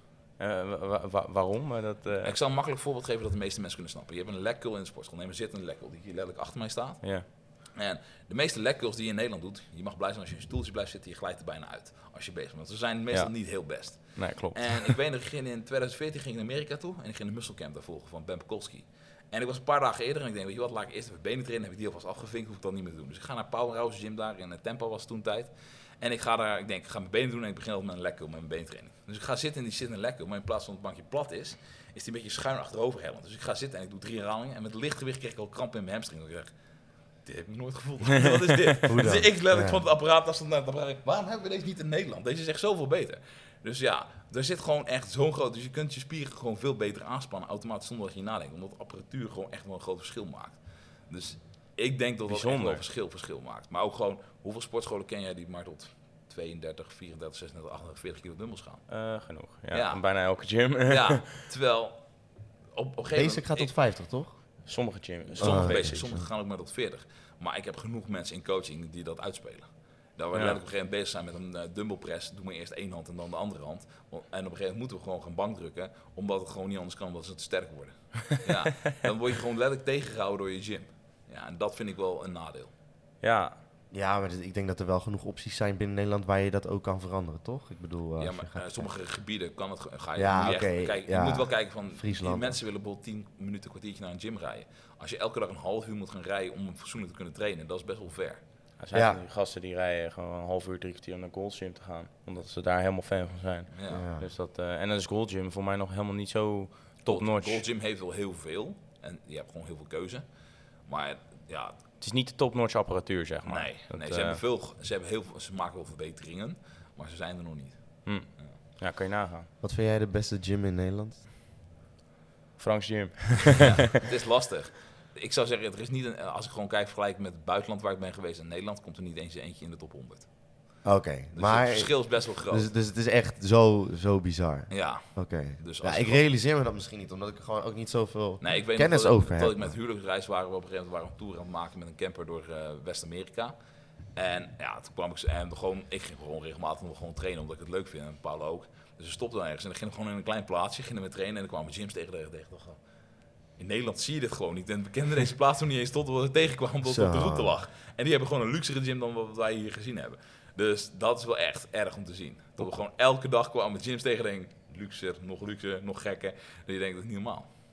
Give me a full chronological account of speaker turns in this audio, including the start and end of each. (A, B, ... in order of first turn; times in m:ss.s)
0:00.4-0:02.4 A
0:02.2-0:59.0 B
0:07.0-0:07.3 A
0:13.1-0:15.0 A
0:38.9-0:39.8 C
0:52.2-0:52.8 A
0:58.9-1:01.3 A
0:59.7-1:03.7 B
1:03.1-1:04.6 C
1:04.6-1:06.2 A
1:05.4-1:22.7 B
1:05.4-1:06.2 C
1:10.3-1:10.6 A
1:23.2-1:23.6 A
1:23.9-1:28.9 C
1:28.2-1:38.4 B
1:30.2-1:32.6 C
1:38.8-1:47.6 A
1:38.9-1:39.2 C
1:43.7-1:44.0 B
1:43.9-1:44.3 C
1:47.0-1:51.8 B
1:52.0-1:54.4 A
1:53.5-1:58.6 B
1:58.0-1:59.5 A
1:59.6-2:01.2 C
2:02.6-2:03.9 A
2:03.6-2:12.7 B
2:10.8-2:19.8 C
2:14.7-2:16.3 B
2:18.4-2:47.5 B
2:36.8-2:37.6 C